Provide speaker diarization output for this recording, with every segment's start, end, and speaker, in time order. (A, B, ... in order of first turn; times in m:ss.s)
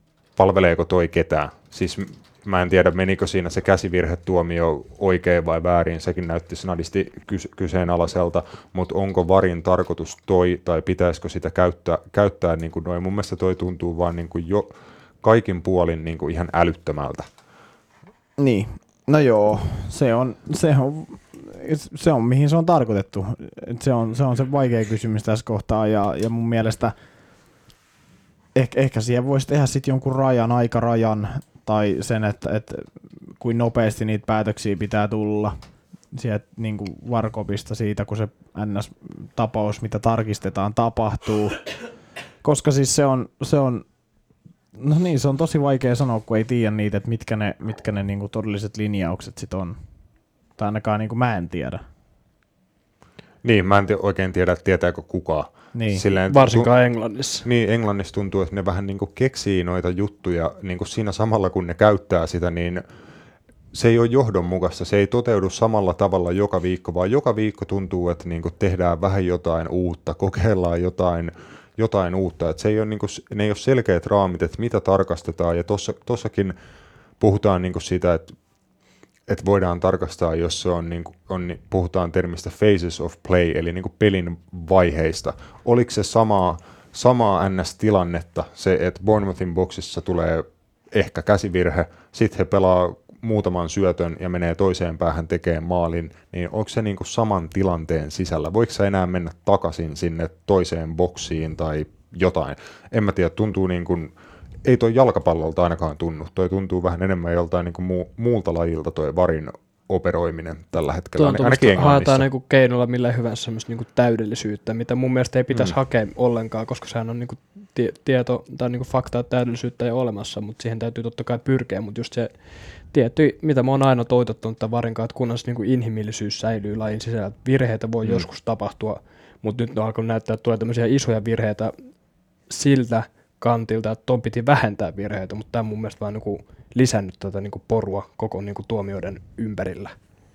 0:00.4-0:17.3 A
0:18.4-0:27.0 B
0:28.6-0:35.5 B
0:36.1-0:41.7 B
0:42.4-0:43.8 B
0:44.8-0:49.8 B
0:50.6-0:51.8 B
0:53.4-0:56.7 A
0:55.7-0:56.0 B
0:56.3-0:57.5 C
0:57.4-1:02.8 A
1:03.7-1:16.6 A
1:17.2-1:18.3 A
1:19.3-1:44.1 A
1:44.6-1:52.3 A
1:51.2-2:11.7 C
2:08.0-2:08.3 A
2:12.5-2:20.0 C